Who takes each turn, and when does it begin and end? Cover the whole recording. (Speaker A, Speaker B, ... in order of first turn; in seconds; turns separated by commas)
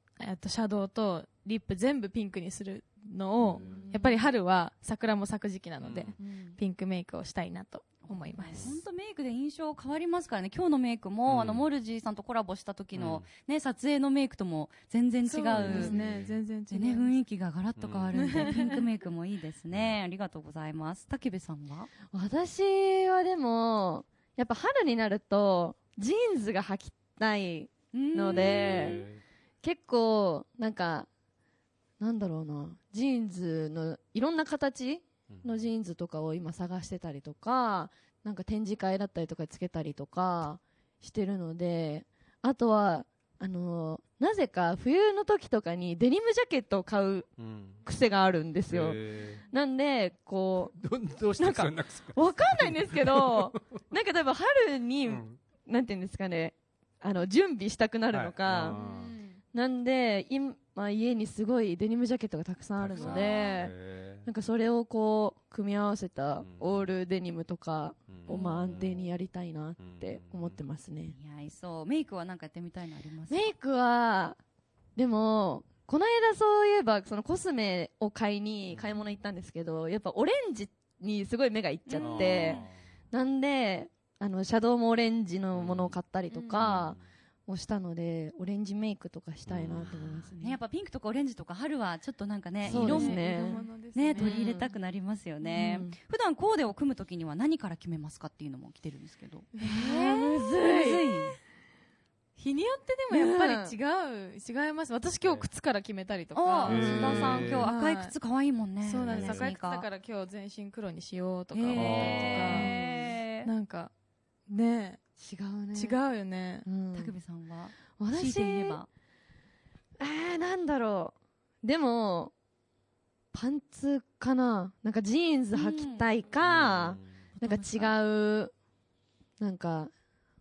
Speaker A: 0.2-8.8, Speaker B: 3.4-3.9, Speaker C: 3.6-4.2, Speaker B: 5.8-6.2, Speaker C: 6.2-6.6, Speaker D: 8.0-15.9, Speaker B: 8.5-8.8, Speaker B: 11.3-11.7, Speaker B: 12.9-13.3, Speaker A: 15.2-17.1, Speaker B: 15.6-16.4, Speaker C: 15.7-16.1, Speaker D: 16.7-21.9, Speaker B: 17.8-18.4, Speaker A: 18.1-18.8, Speaker B: 19.7-20.0, Speaker C: 22.1-29.0, Speaker D: 27.9-29.1, Speaker B: 28.3-29.2, Speaker C: 29.6-31.1, Speaker C: 32.0-47.3, Speaker B: 35.3-35.6, Speaker B: 47.4-47.8, Speaker C: 47.8-50.7, Speaker B: 48.7-49.4, Speaker B: 50.7-53.5, Speaker C: 51.4-58.8, Speaker B: 55.0-55.4, Speaker B: 58.1-59.1, Speaker A: 58.6-59.4, Speaker C: 59.5-71.2, Speaker B: 62.8-64.2, Speaker A: 63.0-63.6, Speaker B: 66.4-66.9, Speaker B: 68.1-69.1, Speaker B: 69.8-70.6, Speaker D: 71.1-73.5, Speaker C: 73.3-74.4, Speaker C: 75.0-90.6, Speaker D: 81.9-82.6, Speaker B: 82.0-82.8, Speaker B: 85.5-86.0, Speaker A: 86.3-86.8, Speaker B: 86.5-87.0, Speaker B: 89.4-90.3, Speaker D: 90.4-101.3, Speaker C: 92.6-93.6, Speaker A: 92.7-94.7, Speaker C: 94.2-94.7, Speaker C: 95.4-96.0, Speaker C: 99.6-101.3, Speaker A: 99.6-101.0, Speaker A: 102.4-108.1, Speaker C: 103.1-103.8, Speaker D: 106.3-109.8, Speaker B: 106.6-107.7, Speaker C: 106.7-107.4, Speaker A: 108.8-112.7, Speaker B: 109.0-109.5, Speaker D: 111.5-113.5, Speaker B: 111.7-112.7, Speaker C: 112.3-113.1, Speaker A: 113.4-113.9, Speaker A: 114.5-115.0, Speaker C: 115.2-116.0, Speaker A: 115.7-116.7, Speaker C: 116.6-117.2, Speaker D: 116.9-118.9, Speaker C: 118.0-118.8, Speaker C: 120.0-122.3, Speaker C: 123.3-128.5, Speaker D: 125.5-126.1, Speaker B: 126.4-127.1, Speaker D: 127.3-128.0, Speaker C: 129.4-129.9